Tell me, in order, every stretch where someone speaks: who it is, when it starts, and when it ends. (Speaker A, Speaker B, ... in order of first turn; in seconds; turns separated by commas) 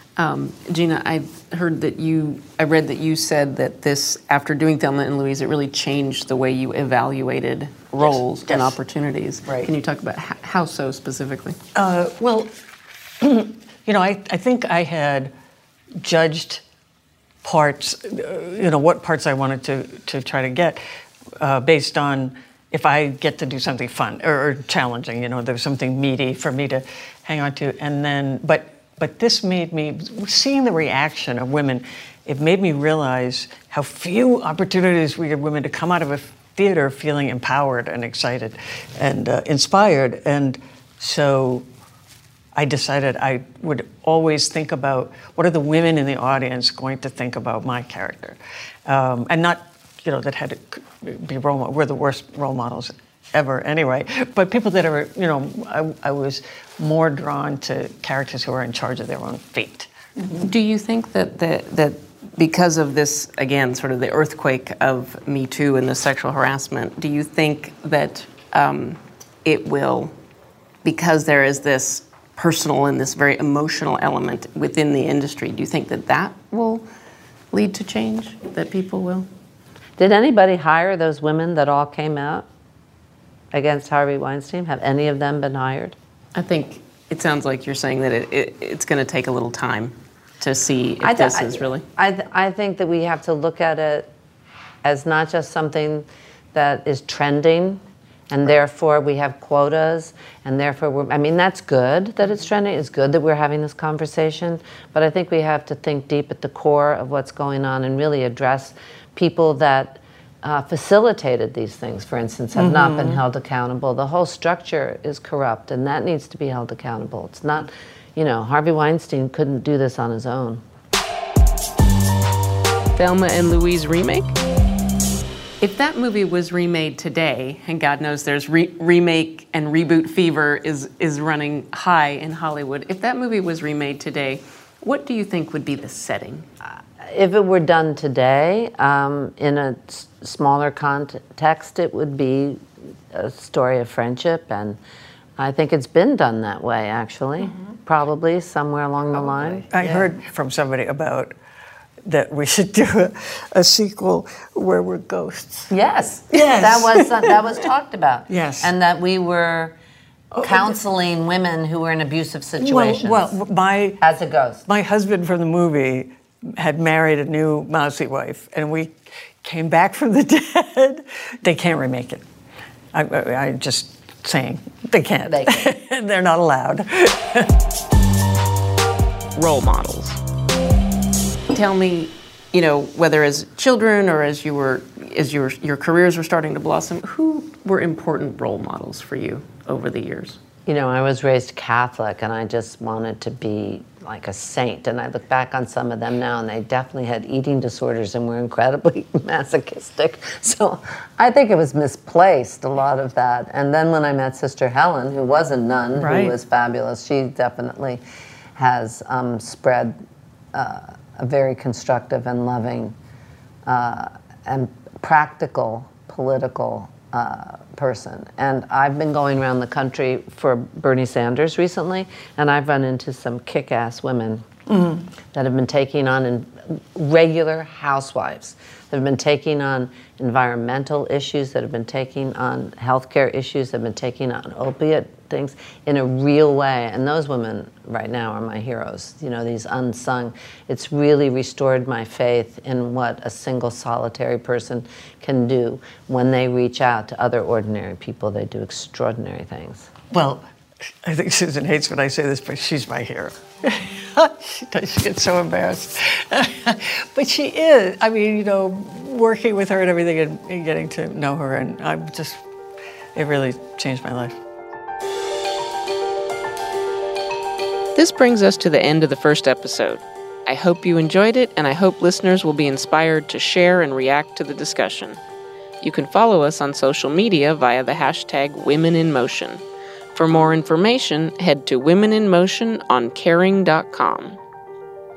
Speaker A: 0.2-11.6, Speaker B: 8.0-8.8, Speaker B: 9.4-9.7, Speaker B: 11.7-12.5, Speaker B: 13.2-15.3, Speaker B: 16.0-16.6, Speaker B: 17.4-20.8, Speaker B: 21.4-41.6, Speaker B: 42.5-60.5, Speaker A: 60.4-70.1, Speaker A: 70.8-76.8, Speaker A: 77.5-79.3, Speaker C: 80.0-82.5, Speaker C: 83.5-86.0, Speaker A: 86.3-91.8, Speaker C: 91.0-94.1, Speaker C: 94.8-120.6, Speaker B: 112.5-113.2, Speaker A: 123.0-124.4, Speaker A: 125.6-136.4, Speaker C: 136.6-144.8, Speaker C: 145.4-149.6, Speaker B: 149.1-151.3, Speaker B: 152.1-155.8, Speaker C: 155.7-159.7, Speaker B: 156.3-157.4, Speaker B: 158.3-158.7, Speaker B: 160.3-160.8, Speaker C: 160.4-163.4, Speaker B: 162.6-172.2, Speaker C: 164.0-164.6, Speaker B: 172.9-177.6, Speaker A: 179.3-180.2, Speaker A: 181.5-190.4, Speaker C: 190.7-208.0, Speaker B: 205.9-206.4, Speaker C: 208.6-209.9, Speaker C: 210.5-212.9, Speaker C: 213.6-224.4, Speaker C: 225.3-249.9, Speaker B: 250.1-250.4, Speaker B: 251.0-262.4, Speaker B: 263.1-264.4, Speaker A: 267.9-275.2, Speaker A: 275.8-279.6, Speaker A: 280.1-284.4